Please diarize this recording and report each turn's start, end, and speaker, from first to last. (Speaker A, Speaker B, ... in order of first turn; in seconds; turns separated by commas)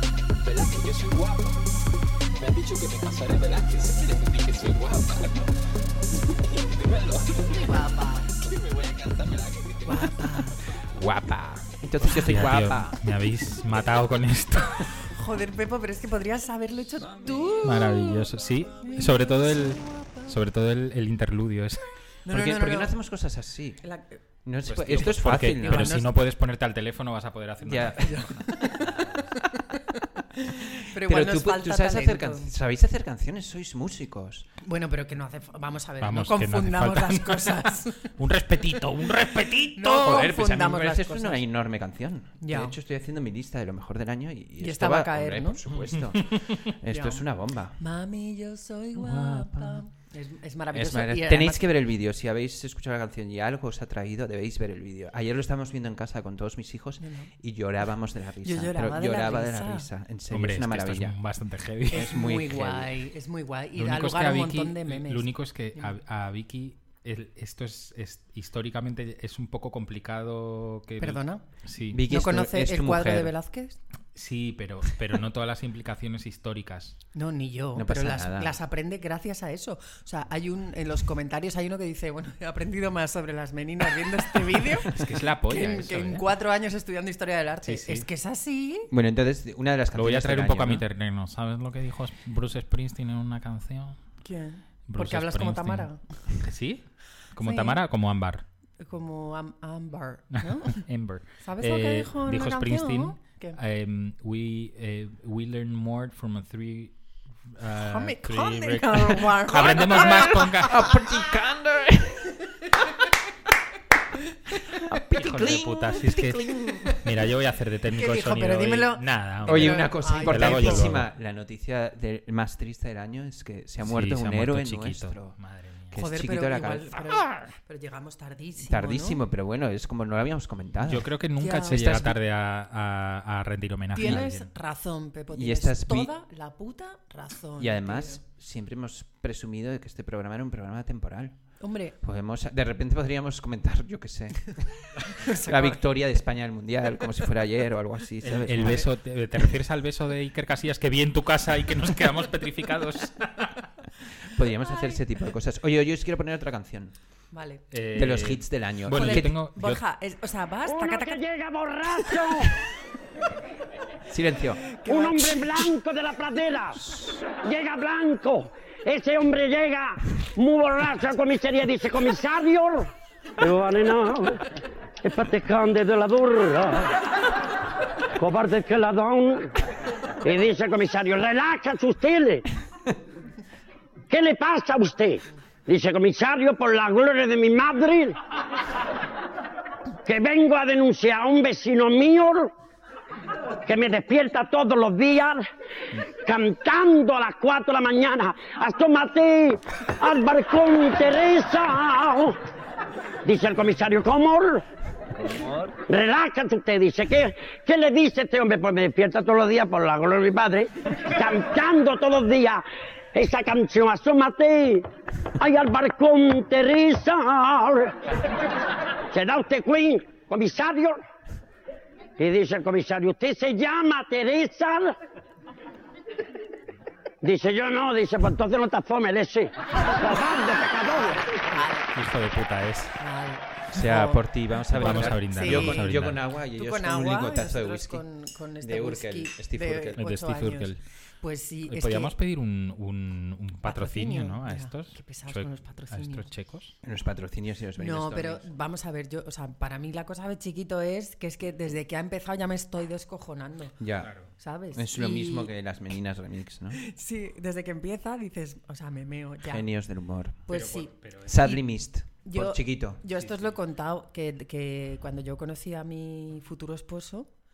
Speaker A: 0.4-1.6, Speaker A: 2.4-5.5, Speaker A: 6.5-7.8, Speaker B: 7.6-8.3, Speaker A: 8.4-10.1, Speaker B: 9.8-10.6, Speaker C: 10.8-13.0, Speaker D: 12.0-14.9, Speaker B: 15.0-18.3, Speaker A: 17.2-17.6, Speaker D: 17.6-21.8, Speaker B: 18.8-20.1, Speaker B: 22.2-22.9, Speaker C: 22.3-23.8, Speaker B: 23.8-24.2, Speaker C: 24.4-26.0, Speaker D: 24.7-29.2, Speaker B: 24.9-26.1, Speaker C: 27.6-28.3, Speaker B: 28.0-28.8, Speaker B: 30.9-32.5, Speaker C: 30.9-34.5, Speaker B: 34.6-38.1, Speaker D: 36.0-40.0, Speaker B: 39.8-41.5, Speaker C: 39.9-47.8, Speaker B: 42.4-42.7, Speaker B: 44.6-45.6, Speaker D: 45.9-46.5, Speaker B: 46.9-47.2, Speaker B: 47.8-51.6, Speaker C: 49.0-49.8, Speaker C: 50.7-61.2, Speaker B: 57.0-57.3, Speaker B: 58.4-59.9, Speaker D: 60.3-62.1, Speaker C: 61.9-62.9, Speaker B: 61.9-66.0, Speaker D: 63.8-72.0, Speaker B: 71.0-71.5, Speaker C: 71.9-73.3, Speaker B: 72.0-73.8, Speaker D: 74.1-77.0, Speaker B: 77.2-84.9, Speaker C: 77.8-78.5, Speaker D: 84.9-86.2, Speaker C: 85.2-85.8, Speaker B: 85.5-88.9, Speaker D: 87.6-88.1, Speaker C: 88.9-90.9, Speaker D: 89.9-94.0, Speaker B: 94.2-96.0, Speaker D: 94.9-98.4, Speaker B: 97.4-97.8, Speaker B: 98.8-100.9, Speaker D: 100.4-107.0, Speaker B: 101.4-103.6, Speaker D: 107.5-110.9, Speaker B: 107.8-110.7, Speaker C: 109.6-112.3, Speaker C: 114.9-117.0, Speaker D: 115.1-121.1, Speaker B: 117.9-120.9, Speaker C: 119.5-125.4, Speaker D: 123.8-126.0, Speaker C: 125.9-127.5, Speaker B: 126.0-129.2, Speaker C: 128.6-131.1, Speaker D: 130.8-134.5, Speaker B: 131.4-132.1, Speaker C: 131.8-132.1, Speaker B: 133.9-138.2, Speaker C: 134.0-134.2, Speaker C: 135.3-136.1, Speaker C: 137.6-148.9, Speaker B: 141.6-142.0, Speaker B: 145.2-145.8, Speaker D: 148.2-153.7, Speaker C: 154.3-156.9, Speaker B: 157.3-157.6, Speaker D: 157.7-159.8, Speaker C: 157.9-159.4, Speaker B: 158.9-161.2, Speaker E: 160.7-162.5, Speaker C: 164.1-164.6, Speaker B: 164.8-165.6, Speaker E: 164.9-174.4, Speaker E: 175.0-177.0, Speaker E: 178.2-179.6, Speaker E: 180.2-182.5, Speaker E: 184.1-188.2, Speaker E: 190.1-192.5, Speaker E: 193.7-195.4, Speaker E: 196.2-202.4, Speaker E: 203.2-204.6, Speaker E: 205.8-214.9, Speaker E: 215.4-218.0, Speaker E: 219.1-221.0, Speaker E: 222.2-225.0, Speaker E: 227.2-231.3, Speaker B: 231.3-231.9, Speaker D: 231.9-233.0, Speaker B: 233.0-235.9, Speaker C: 233.7-238.1, Speaker D: 234.7-236.2, Speaker B: 236.6-242.2, Speaker C: 238.6-240.1, Speaker D: 240.0-240.8, Speaker D: 241.7-246.7, Speaker B: 243.6-246.3, Speaker C: 246.8-248.5, Speaker B: 247.8-255.5, Speaker C: 253.8-254.1, Speaker D: 254.0-254.3, Speaker C: 254.7-256.8, Speaker B: 256.8-259.7, Speaker C: 259.4-260.5, Speaker B: 260.5-261.6, Speaker D: 260.5-261.4, Speaker C: 261.2-263.0, Speaker B: 262.2-267.3, Speaker D: 263.1-263.5